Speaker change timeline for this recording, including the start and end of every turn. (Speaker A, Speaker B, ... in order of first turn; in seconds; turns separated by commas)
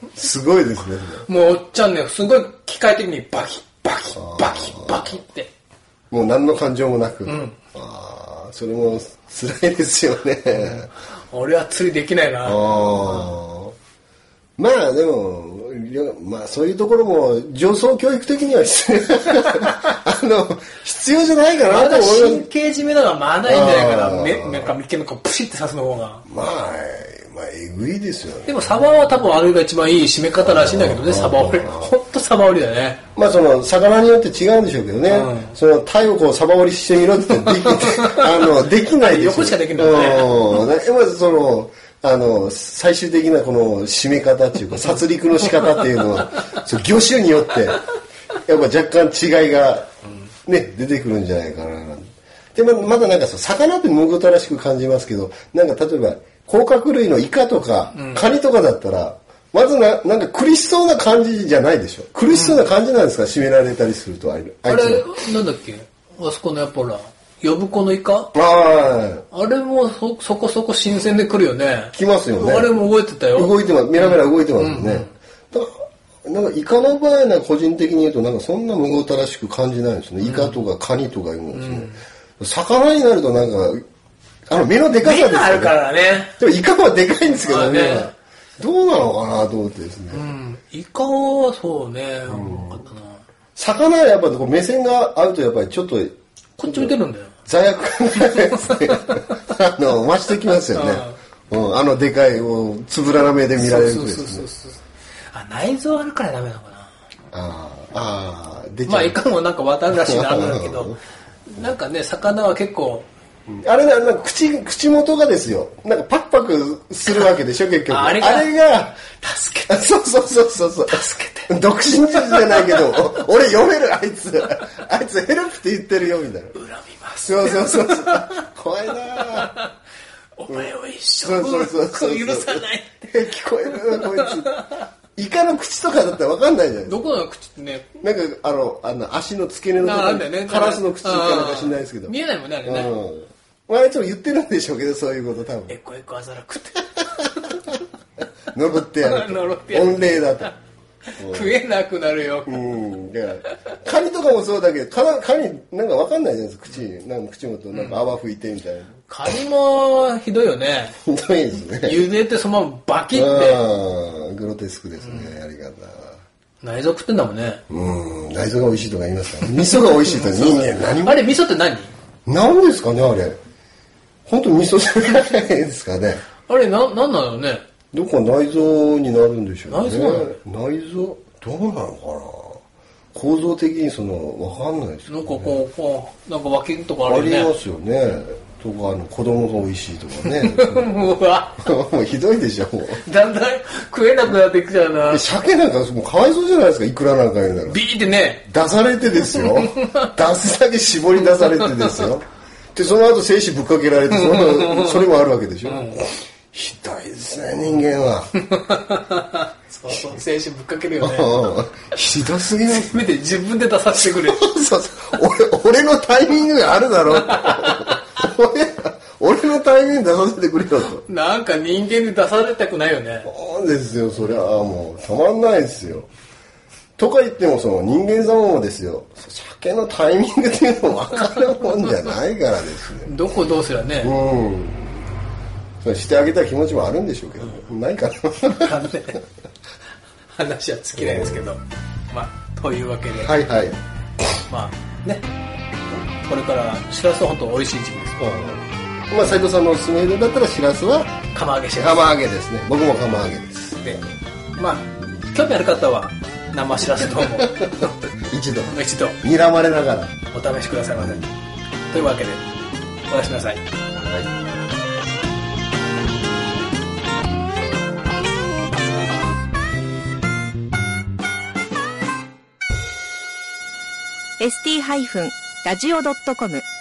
Speaker A: 0.1-1.3, Speaker B: 1.3-5.5, Speaker A: 4.2-5.2, Speaker A: 6.1-10.9, Speaker B: 7.3-7.6, Speaker B: 10.5-13.3, Speaker A: 12.4-13.8, Speaker A: 14.6-22.5, Speaker B: 21.6-26.2, Speaker A: 23.4-24.8, Speaker A: 26.3-29.1, Speaker B: 28.5-33.0, Speaker A: 30.4-31.9, Speaker A: 33.2-47.9, Speaker B: 35.1-35.5, Speaker B: 37.4-40.5, Speaker A: 48.5-49.9, Speaker A: 50.5-65.3, Speaker B: 57.9-58.3, Speaker B: 62.3-62.6, Speaker B: 64.7-68.3, Speaker A: 68.3-69.3, Speaker B: 69.3-75.1, Speaker A: 71.9-72.8, Speaker A: 73.3-75.7, Speaker A: 76.2-83.8, Speaker B: 80.2-80.6, Speaker B: 81.5-82.0, Speaker A: 84.5-85.8, Speaker B: 85.0-86.3, Speaker A: 86.3-90.3, Speaker B: 87.4-88.1, Speaker B: 90.1-93.2, Speaker A: 92.3-92.8, Speaker A: 93.6-97.0, Speaker B: 96.6-97.3, Speaker A: 97.5-104.5, Speaker B: 98.2-99.4, Speaker B: 100.7-101.2, Speaker B: 103.6-104.8, Speaker B: 105.3-106.9, Speaker A: 107.3-109.2, Speaker B: 108.9-110.9, Speaker A: 109.9-111.0, Speaker B: 111.5-113.1, Speaker A: 113.5-119.0, Speaker B: 117.9-119.9, Speaker A: 119.7-126.6, Speaker B: 120.9-121.5, Speaker B: 122.1-123.0, Speaker B: 126.6-128.4, Speaker A: 127.2-129.6, Speaker B: 129.1-129.7, Speaker B: 130.4-134.8, Speaker A: 130.5-134.6, Speaker A: 135.2-137.1, Speaker B: 136.9-137.9, Speaker A: 138.0-145.8, Speaker B: 139.8-142.9, Speaker B: 145.7-147.7, Speaker A: 148.5-150.5, Speaker B: 149.0-150.5, Speaker B: 151.1-152.7, Speaker A: 151.2-151.6, Speaker A: 152.5-158.9, Speaker B: 157.7-158.0, Speaker B: 159.1-161.0, Speaker A: 161.0-162.1, Speaker B: 161.8-163.6, Speaker A: 163.1-166.2, Speaker B: 165.0-165.3, Speaker B: 166.6-167.6, Speaker A: 167.7-171.3, Speaker B: 169.8-171.9, Speaker A: 172.3-173.4, Speaker A: 174.3-176.2, Speaker B: 176.5-177.7, Speaker A: 177.9-182.6, Speaker B: 179.7-180.3, Speaker A: 183.1-185.6, Speaker B: 185.1-187.5, Speaker A: 187.1-193.0, Speaker B: 190.2-191.6, Speaker B: 193.0-195.2, Speaker A: 195.1-197.8, Speaker B: 197.7-198.4, Speaker A: 198.4-208.3, Speaker B: 199.4-200.1, Speaker B: 201.3-202.1, Speaker B: 204.1-205.1, Speaker B: 205.7-206.0, Speaker B: 208.3-211.5, Speaker A: 211.0-213.1, Speaker B: 212.6-214.5, Speaker A: 214.0-221.1, Speaker B: 217.3-218.0, Speaker B: 221.0-223.3, Speaker A: 223.2-226.1, Speaker A: 227.0-233.2, Speaker B: 233.0-234.2, Speaker A: 234.0-235.0, Speaker A: 235.8-238.9, Speaker B: 238.5-239.2, Speaker B: 240.3-243.3, Speaker A: 241.0-241.5, Speaker A: 243.1-243.8, Speaker B: 244.5-245.3, Speaker B: 246.3-248.3, Speaker A: 248.2-251.2, Speaker B: 251.3-252.1, Speaker A: 251.8-254.1, Speaker B: 254.6-258.0, Speaker A: 257.0-260.2, Speaker B: 258.7-259.2, Speaker B: 260.3-261.3, Speaker A: 261.0-261.3, Speaker B: 261.9-262.4, Speaker B: 263.1-263.6, Speaker A: 263.9-264.3, Speaker C: 274.4-276.6